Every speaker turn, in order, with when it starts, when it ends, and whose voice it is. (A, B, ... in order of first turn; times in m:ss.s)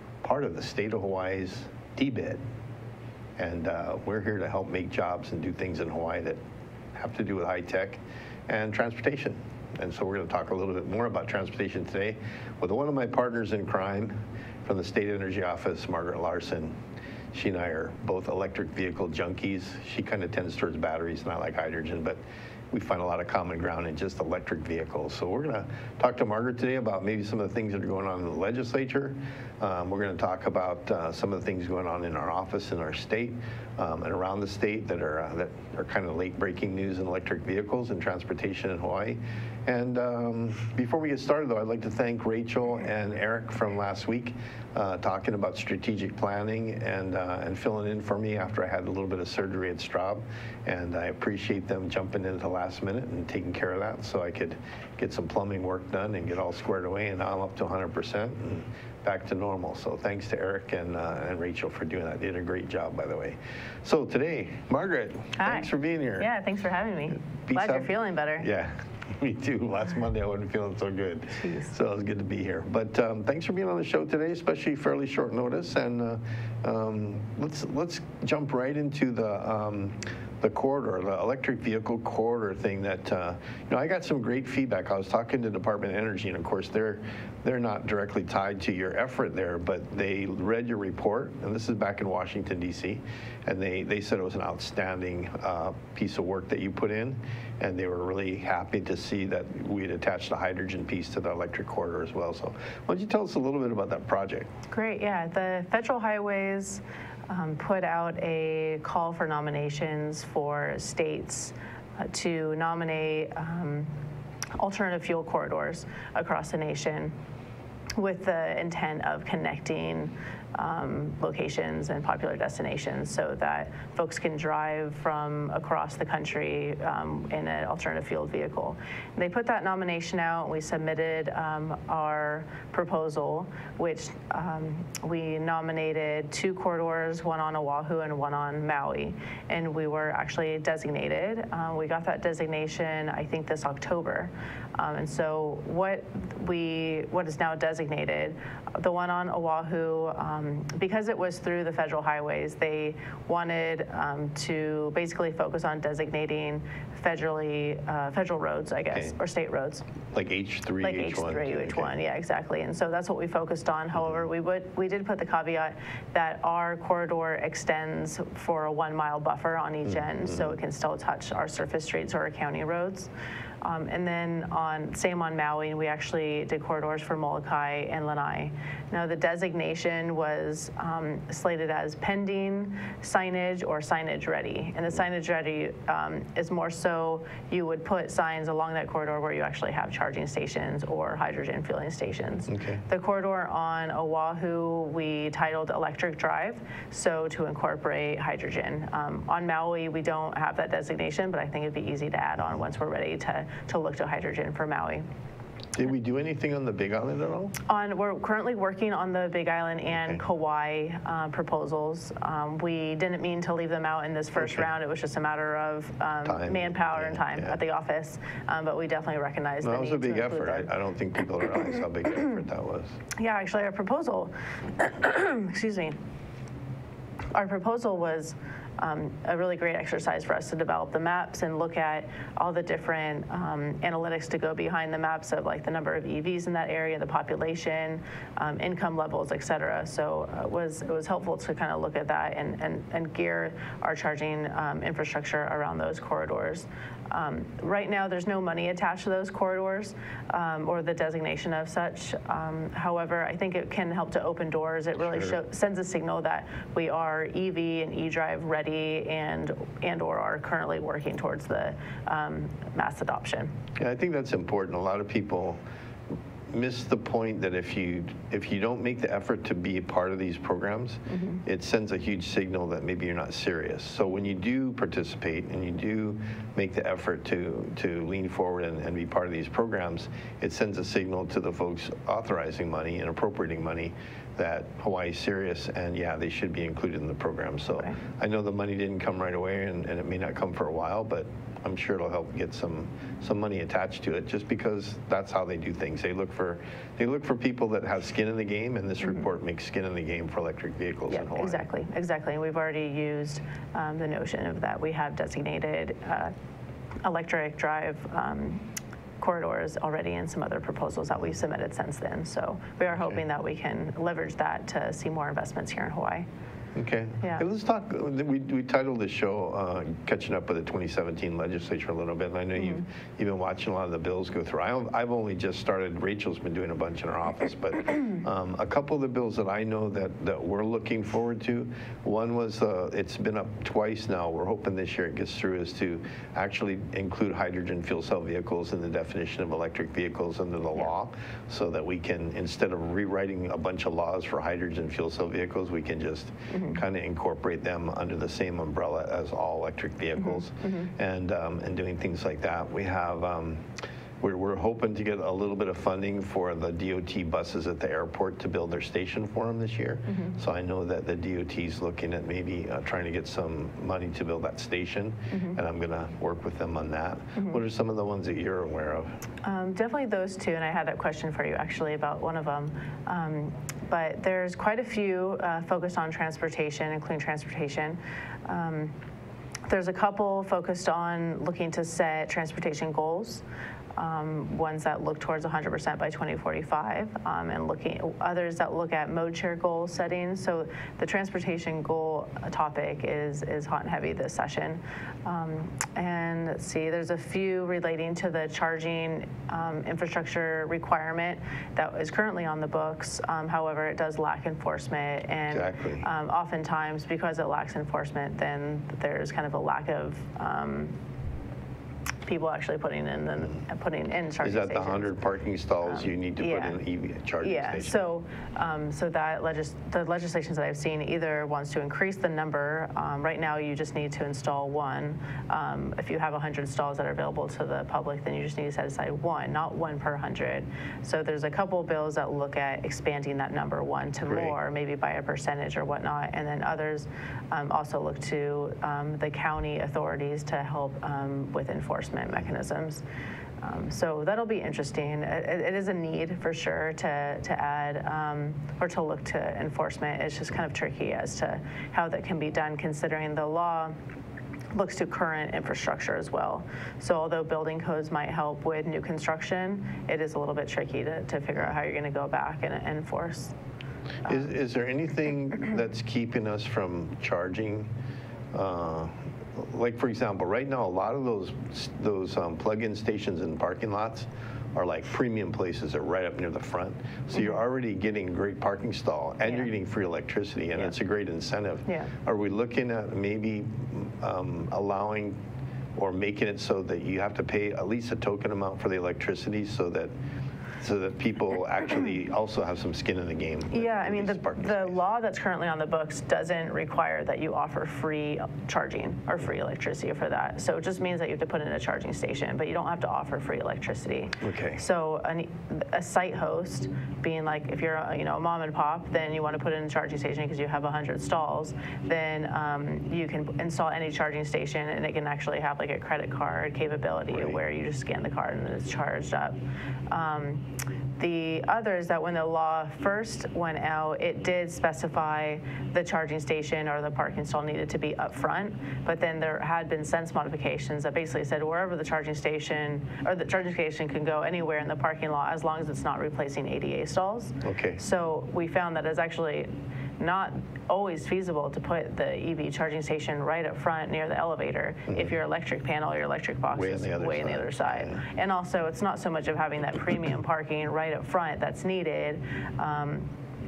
0:00.2-0:02.4 A
0:03.4-0:06.4 A
0:06.9-0:16.8 A
0:17.3-0:22.2 A
0:22.7-1:06.3 A
1:05.4-1:08.5 B
1:07.4-1:44.5 A
1:11.4-1:11.7 B
1:44.7-1:53.9 B
1:54.6-1:57.1 B
1:58.0-2:39.8 B
2:38.9-2:39.2 A
2:40.1-2:42.0 A
2:40.8-2:53.1 B
2:43.9-2:44.2 A
2:49.8-2:50.6 A
2:53.6-3:25.0 B
3:12.5-3:12.8 A
3:25.7-3:27.6 A
3:27.7-3:40.7 B
3:29.9-3:30.2 A
3:34.4-3:34.7 A
3:36.2-3:37.6 A
3:39.6-3:43.0 A
3:43.2-3:46.0 B
3:47.3-4:23.5 B
4:15.0-4:15.4 A
4:23.8-4:25.6 A
4:26.5-5:01.6 A
4:31.1-4:31.4 B
5:01.1-5:06.3 B
5:07.0-5:08.7 B
5:09.2-5:16.3 B
5:12.9-5:13.2 A
5:16.7-5:53.6 A
5:46.5-5:46.8 B
5:50.2-5:50.9 B
5:54.2-6:09.2 A
6:00.1-6:00.4 B
6:05.3-6:05.6 B
6:07.4-6:07.6 B
6:09.4-6:19.0 B
6:19.7-6:23.4 B
6:24.0-6:51.0 B
6:45.5-6:46.1 A
6:52.2-6:55.2 B
6:54.4-6:58.0 A
6:55.8-6:56.8 B
6:57.4-7:23.0 B
7:14.2-7:14.6 A
7:23.6-7:33.9 B
7:34.7-7:43.5 B
7:44.2-7:47.9 A
7:48.5-8:05.4 A
7:59.4-7:59.7 B
8:01.9-8:02.1 B
8:05.9-8:10.1 A
8:10.8-8:15.0 A
8:13.7-8:39.6 B
8:24.4-8:24.8 A
8:37.3-8:37.6 A
8:40.1-9:13.3 B
8:57.6-8:58.0 A
9:05.1-9:05.3 A
9:06.7-9:08.2 A